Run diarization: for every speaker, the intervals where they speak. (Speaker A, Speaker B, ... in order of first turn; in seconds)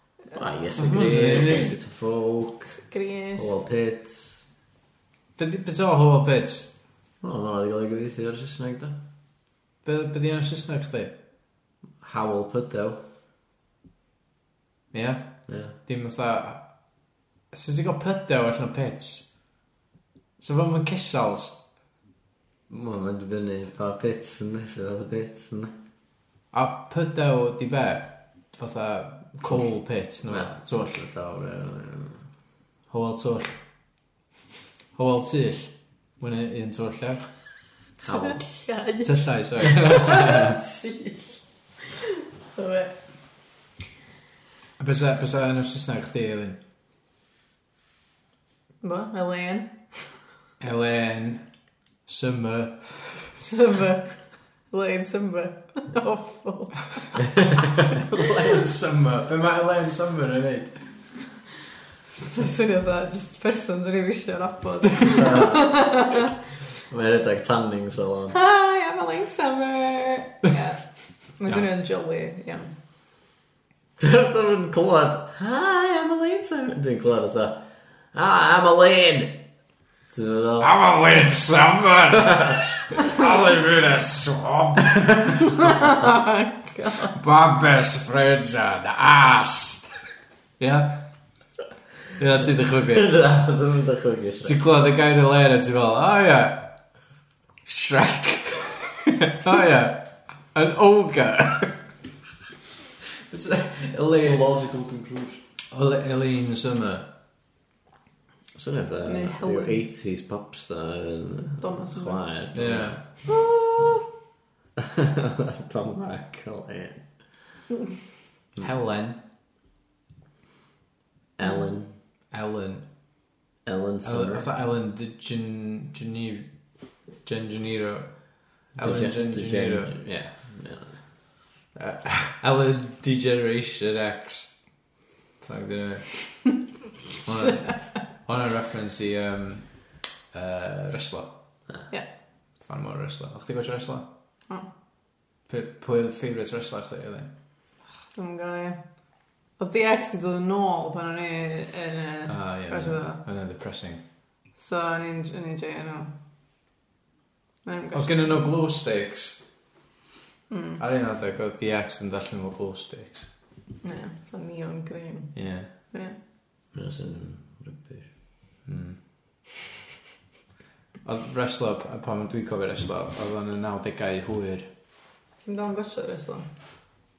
Speaker A: 0.3-2.8, 3.4-4.5, 7.2-9.0, 12.0-13.0, 15.5-15.8, 22.7-25.7, 30.3-32.2, 38.0-38.5, 57.2-57.9, 65.1-65.7, 66.9-68.4, 74.0-79.4, 80.1-80.7, 92.9-94.6, 104.1-105.4, 108.5-114.0, 114.8-117.4, 121.4-122.0, 123.7-124.5, 128.8-131.0, 166.7-168.1
Speaker B: 0.8-1.7, 5.4-6.7, 9.8-11.1, 14.9-16.6, 17.5-19.3, 20.4-21.6, 26.5-30.9, 32.9-33.6, 34.9-37.2, 39.0-40.6, 44.8-46.6, 50.6-51.4, 52.0-53.4, 58.0-60.9, 80.6-85.5, 87.1-89.8, 90.6-91.1, 92.2-93.1, 94.4-96.7, 97.7-101.8, 103.3-104.4, 105.7-107.1, 112.5-113.3, 118.6-119.2, 122.3-122.8, 124.0-126.5, 127.2-130.0, 131.7-134.6, 135.4-136.5, 137.2-141.3, 142.6-144.1, 145.5-147.3, 152.2-154.0, 157.9-159.4, 160.8-163.3, 165.3-165.7, 168.6-169.0, 171.0-174.7
Speaker C: 2.7-3.5, 38.0-42.9, 48.8-50.0, 53.4-57.2, 62.3-66.3, 68.3-72.7, 85.6-87.1, 109.0-109.8, 111.6-112.2, 148.1-148.8, 149.6-153.2, 154.6-156.1, 157.6-158.2, 160.5-160.8, 163.8-166.2, 175.4-176.5